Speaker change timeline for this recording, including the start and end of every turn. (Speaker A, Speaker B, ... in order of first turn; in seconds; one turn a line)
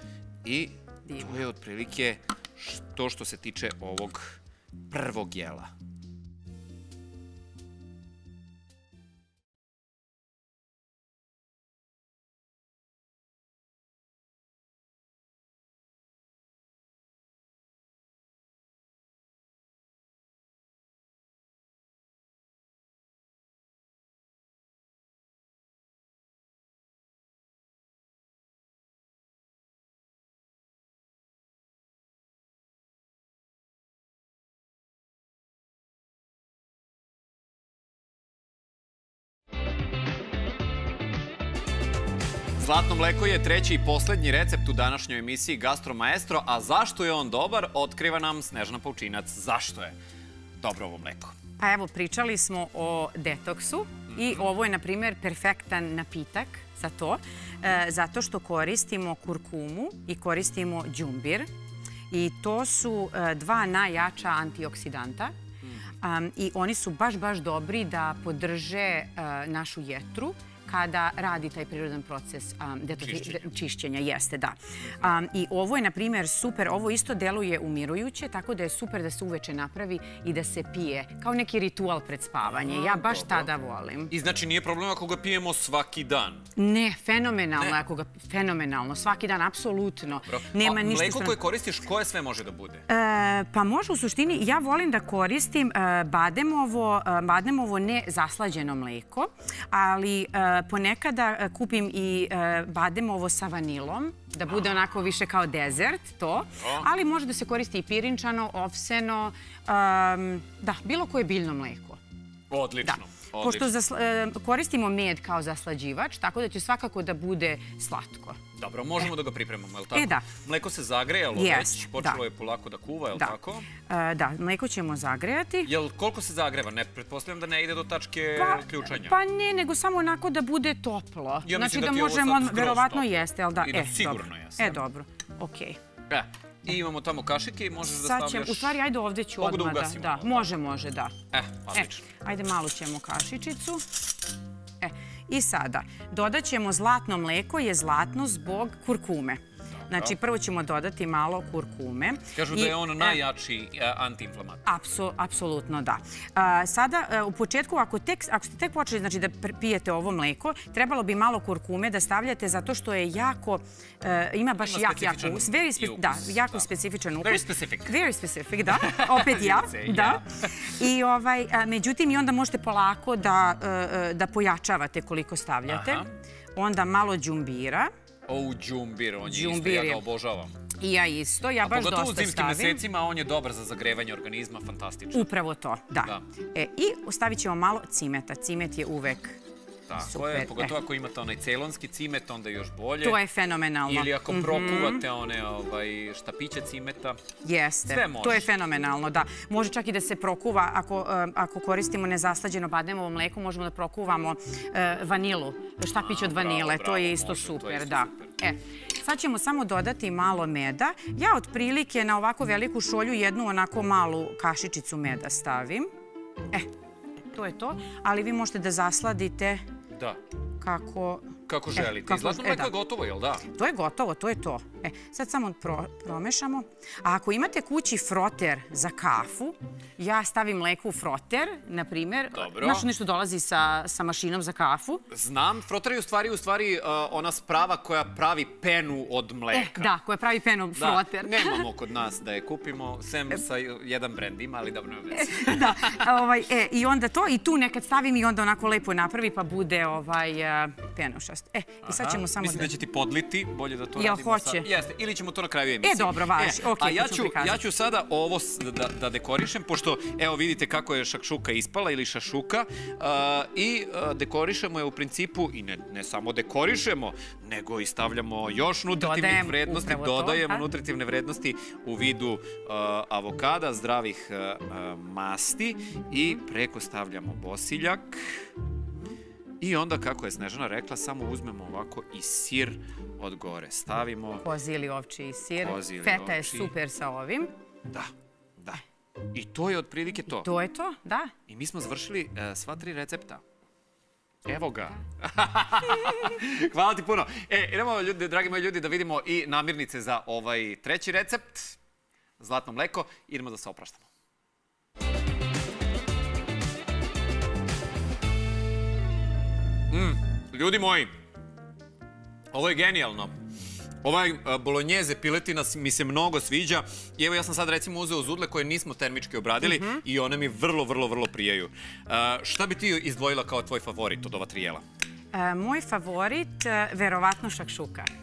Speaker A: 0.4-5.7
Speaker B: 1.1-1.4
Speaker A: 42.6-50.0
Speaker A: 50.6-51.4
Speaker B: 51.6-61.5
Speaker A: 54.1-54.5
Speaker B: 62.1-65.3
Speaker A: 65.6-65.9
Speaker B: 66.0-84.1
Speaker A: 73.0-73.4
Speaker A: 82.5-83.5
Speaker A: 84.1-86.4
Speaker B: 86.5-91.4
Speaker A: 90.2-92.8
Speaker B: 92.9-112.0
Speaker A: 106.6-106.9
Speaker A: 112.5-113.8
Speaker B: 112.8-118.4
Speaker A: 118.5-123.7
Speaker B: 119.9-120.2
Speaker B: 121.3-122.2
Speaker B: 123.2-125.7
Speaker A: 125.7-129.2
Speaker B: 128.4-135.8
Speaker A: 131.4-134.8
Speaker A: 136.1-138.8
Speaker B: 137.9-141.2
Speaker A: 139.4-140.5
Speaker A: 141.3-142.1
Speaker B: 141.7-143.8
Speaker B: 144.8-153.2
Speaker A: 149.8-150.2
Speaker A: 152.3-154.7
Speaker B: 154.7-177.9
Speaker A: 164.6-166.7
Speaker A: 167.2-168.0
Speaker A: 168.7-170.4
Speaker A: 175.7-176.1
Speaker A: 178.2-180.6
Speaker B: 179.2-180.0
Speaker B: 180.8-182.8
Speaker A: 181.6-185.3
Speaker B: 185.1-189.4
Speaker A: 189.9-193.2
Speaker B: 190.0-190.8
Speaker B: 193.0-195.0
Speaker A: 193.9-197.2
Speaker B: 197.4-215.9
Speaker A: 197.9-198.5
Speaker A: 206.0-208.3
Speaker B: 217.3-219.6
Speaker B: 220.6-222.7
Speaker A: 221.5-223.4
Speaker B: 223.5-235.0
Speaker A: 232.3-232.9
Speaker A: 235.1-239.9
Speaker B: 239.5-241.7
Speaker A: 240.7-246.1
Speaker B: 245.1-252.7
Speaker A: 251.8-278.5
Speaker B: 254.0-254.7
Speaker B: 255.8-257.6
Speaker B: 268.9-270.6
Speaker A: 279.6-284.4
Speaker B: 284.4-287.5
Speaker A: 285.6-286.7
Speaker A: 287.9-288.8
Speaker A: 289.3-290.5
Speaker B: 290.3-291.3
Speaker A: 291.5-293.4
Speaker A: 294.4-301.8
Speaker A: 302.4-304.1
Speaker A: 309.9-311.1
Speaker A: 312.5-313.4
Speaker A: 314.0-324.8
Speaker B: 319.6-320.0
Speaker B: 325.3-328.1